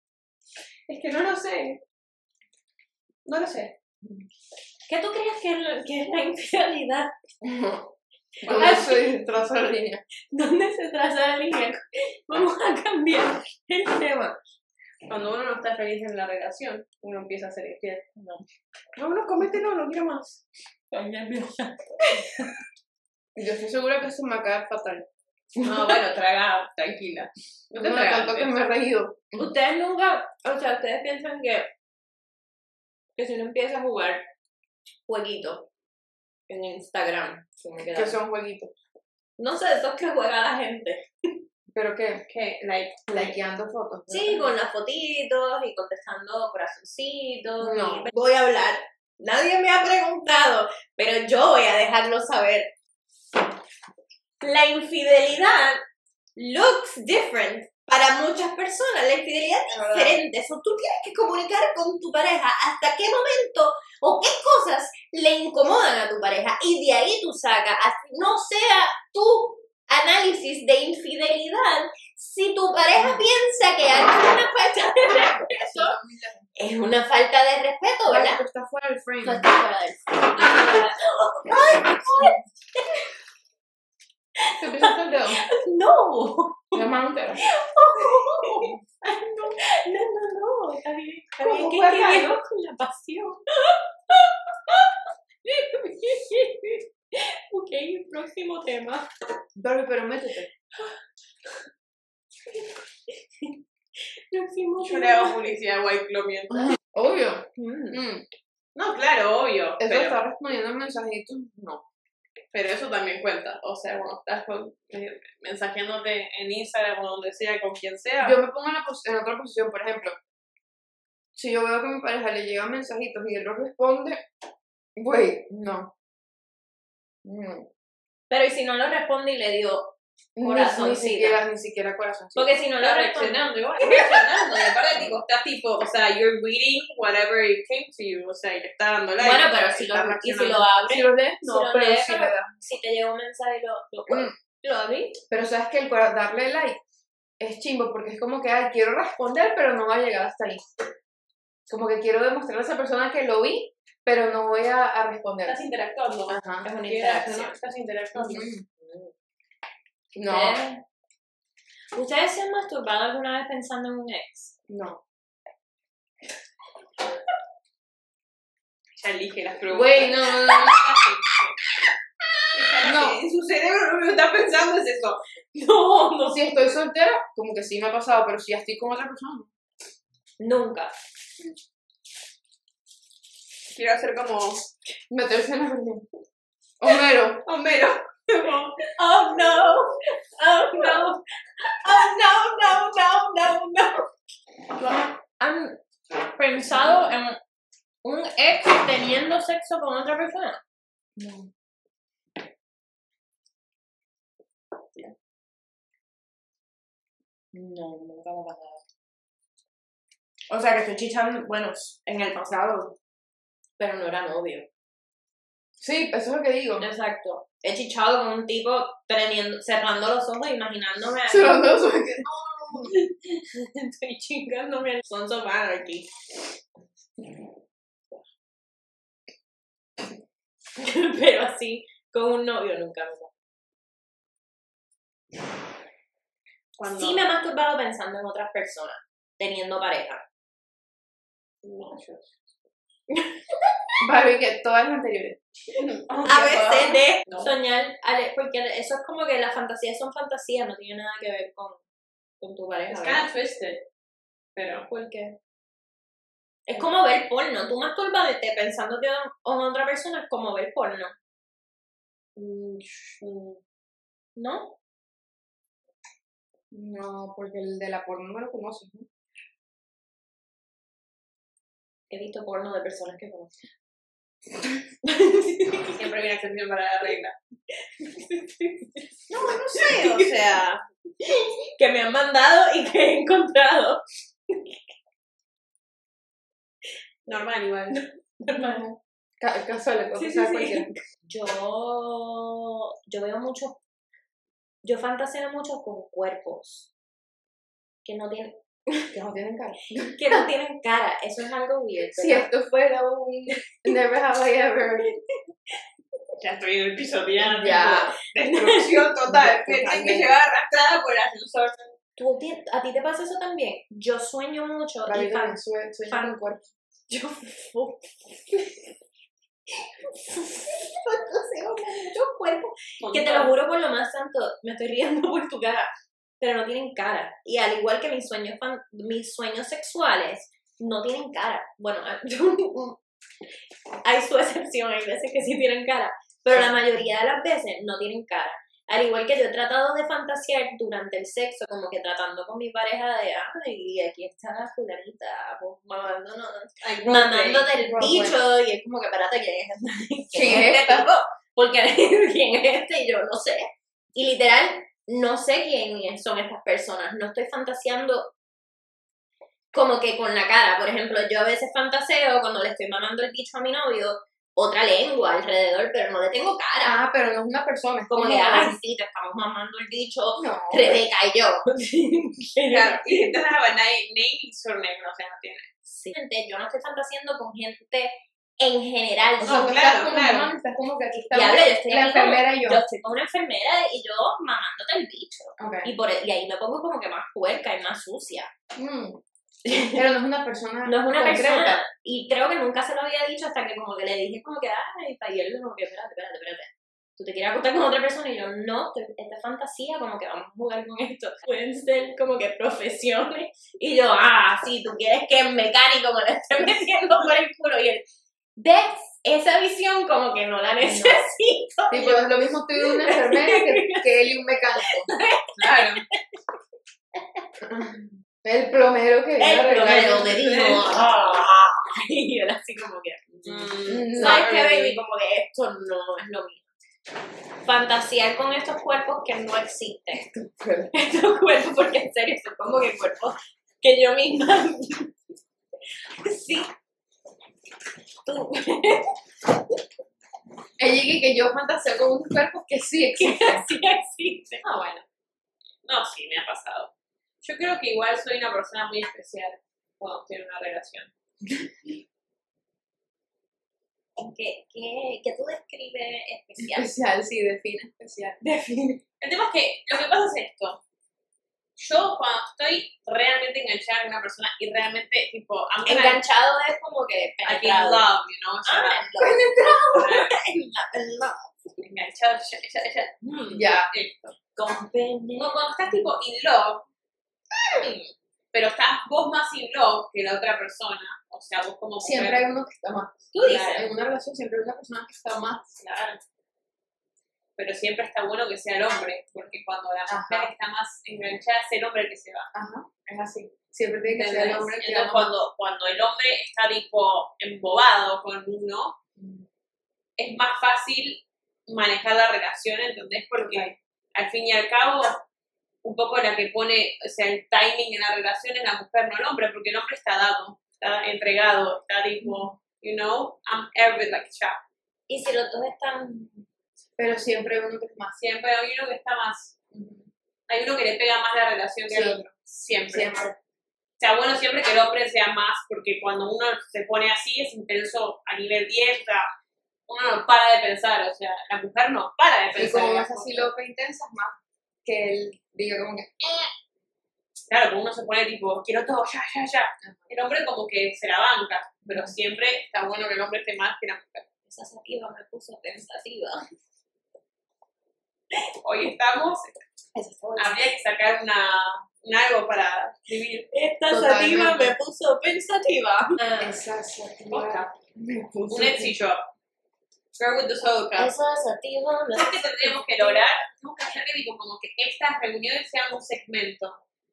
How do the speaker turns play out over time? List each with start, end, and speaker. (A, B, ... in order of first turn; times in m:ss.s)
0:00.9-0:01.8 A
0:03.3-0:03.8 A
0:04.9-0:07.1 B
0:07.4-0:07.9 C
0:08.4-0:09.1 B
0:08.4-0:10.0 C
0:10.3-0:14.4 B
0:15.1-0:18.1 A
0:18.2-0:18.4 B
0:19.0-0:20.4 A
0:20.9-0:22.5 B
0:23.4-0:25.0 C
0:25.6-0:28.5 A
0:27.8-0:29.5 C
0:29.4-0:31.7 B
0:33.2-0:34.2 B
0:35.1-0:35.7 B
0:36.5-0:38.2 B
0:37.8-0:38.7 C
0:39.4-0:41.4 B
0:41.7-0:42.2 C
0:42.3-0:43.2 A
0:43.1-0:44.5 C
0:44.1-0:52.7 B
0:47.6-0:48.1 C
0:54.4-0:55.8 B
0:56.4-1:16.0 B
1:15.0-1:16.5 C
1:16.6-1:18.4 B
1:18.1-1:19.5 C
1:19.2-1:23.0 B
1:22.1-1:22.3 C
1:24.4-1:26.8 B
1:24.6-1:25.4 C
1:26.7-1:27.4 C
1:27.4-1:39.1 B
1:28.1-1:28.8 C
1:31.4-1:32.4 C
1:39.6-1:40.5 C
1:44.3-1:45.4 B
1:44.8-1:46.8 A
1:46.8-1:48.3 C
1:47.6-1:48.0 B
1:48.8-1:50.2 A
1:49.8-1:51.8 C
1:52.5-1:58.4 A
1:58.2-2:00.2 C
2:01.4-2:04.2 C
2:05.0-2:05.9 C
2:07.2-2:07.7 C
2:08.3-2:11.4 B
2:10.4-2:12.5 C
2:12.4-2:14.2 B
2:12.8-2:20.7 A
2:19.2-2:25.2 B
2:20.9-2:22.5 C
2:24.1-2:24.3 C
2:25.3-2:26.8 C
2:27.4-2:30.7 C
2:31.7-2:35.6 C
2:35.4-2:38.5 A
2:36.3-2:36.7 C
2:36.6-2:37.6 B
2:38.2-2:38.6 C
2:38.8-2:39.1 B
2:40.2-2:40.6 C
2:40.2-2:40.8 B
2:41.9-2:44.5 B
2:44.7-2:45.0 C
2:49.0-2:51.5 A
2:49.7-2:50.8 C
2:52.5-2:55.2 A
2:52.8-2:53.2 C
2:55.6-2:56.4 B
2:56.3-2:59.5 C
3:00.4-3:00.9 B
3:03.7-3:04.7 A
3:05.1-3:06.1 C
3:06.8-3:07.4 C
3:07.4-3:08.8 A
3:08.8-3:14.1 B
3:14.8-3:17.4 B
3:18.0-3:20.6 B
3:21.2-3:21.5 C
3:27.5-3:28.8 B
3:30.5-3:32.8 B
3:32.6-3:32.9 C
3:33.8-3:34.7 B
3:35.8-3:36.9 C
3:36.8-3:41.8 B
3:41.3-3:42.9 C
3:42.7-3:46.1 B
3:50.8-3:53.3 B
3:56.8-3:57.3 A
3:57.0-4:00.2 B
4:01.6-4:02.3 A
4:04.0-4:05.4 C
4:05.8-4:07.5 A
4:06.2-4:11.8 B
4:12.4-4:13.3 B
4:12.9-4:13.8 A
4:14.6-4:14.9 A
4:14.9-4:15.4 B
4:16.7-4:21.1 B
4:22.4-4:23.6 A
4:24.4-4:24.8 B
4:26.7-4:29.1 C
4:32.1-4:33.6 B
4:35.0-4:36.0 B
4:36.0-4:37.4 A
4:38.0-4:40.3 B
4:39.3-4:40.8 A
4:41.2-4:44.8 B
4:47.3-4:48.0 A
4:48.4-4:48.9 B
4:48.6-4:50.9 C
4:50.2-4:53.8 B
4:54.8-4:56.9 B
4:58.0-4:58.6 B
4:59.1-5:00.4 C
5:00.1-5:02.5 B
5:02.1-5:05.1 C
5:06.4-5:11.9 A
5:07.4-5:10.3 C
5:08.5-5:08.8 B
5:12.2-5:16.4 B
5:15.1-5:16.7 C
5:17.1-5:18.6 B
5:20.1-5:33.0 B
5:23.0-5:23.5 A
5:34.0-5:58.3 B
5:46.8-5:47.7 A
5:47.9-5:48.4 C
5:50.3-5:51.1 C
5:59.7-6:07.0 B
6:06.8-6:08.8 C
6:08.1-6:13.4 B
6:10.4-6:11.0 C
6:12.7-6:15.7 A
6:15.9-6:19.7 B
6:19.4-6:22.8 C
6:19.4-6:20.5 A
6:21.3-6:28.5 B
6:25.6-6:25.9 C
6:28.8-6:31.8 C
6:29.7-6:30.0 B
6:30.9-6:56.2 B
6:50.8-6:51.2 C
6:51.9-6:55.1 C
6:55.6-6:56.0 A
6:57.2-6:57.4 B
6:57.6-7:00.8 C
6:59.4-7:06.7 B
6:59.8-7:01.0 A
7:03.4-7:05.0 A
7:03.9-7:04.5 C
7:07.6-7:10.3 B
7:10.2-7:11.0 C
7:10.9-7:15.2 B
7:16.2-7:16.7 B
7:18.2-7:19.1 B
7:20.8-7:23.7 C
7:23.2-7:24.6 B
7:24.6-7:25.0 A
7:25.8-7:31.1 A
7:34.2-7:36.9 B
7:36.6-7:38.4 C
7:38.4-7:39.0 B
7:39.2-7:40.8 A
7:41.8-7:46.2 A
7:45.8-7:48.1 B
7:47.4-7:49.1 A
7:48.6-7:51.6 B
7:49.2-7:50.2 C
7:49.9-7:50.4 A
7:51.8-7:54.4 A
7:53.3-7:53.6 B
7:53.5-7:53.9 C
7:54.6-7:55.6 B
7:55.4-7:56.9 A
7:57.6-7:58.1 B
7:58.5-8:02.5 A
8:02.0-8:05.8 C
8:03.3-8:03.9 B
8:05.8-8:06.2 A
8:07.6-8:12.5 A
8:10.1-8:10.5 C
8:12.5-8:15.3 C
8:14.0-8:19.0 A
8:19.2-8:19.4 C
8:20.2-8:25.2 A
8:23.4-8:23.7 C
8:25.8-8:34.6 A
8:35.1-8:36.5 B
8:37.0-8:38.2 C
8:38.2-8:39.6 A
8:39.7-8:40.0 C
8:40.5-8:43.1 A
8:41.9-8:42.2 C
8:42.9-8:43.3 C
8:44.0-8:49.3 A
8:49.9-8:53.5 A
8:52.6-8:56.5 C
8:57.5-9:04.3 A
9:04.5-9:06.4 B
9:08.6-9:09.6 A
9:10.0-9:10.6 C
9:10.4-9:13.5 A
9:13.5-9:16.4 B
9:13.9-9:14.8 C
9:16.4-9:19.0 C
9:17.3-9:17.7 A
9:18.5-9:19.2 A
9:20.2-9:21.1 A
9:21.0-9:23.5 B
9:22.2-9:26.8 A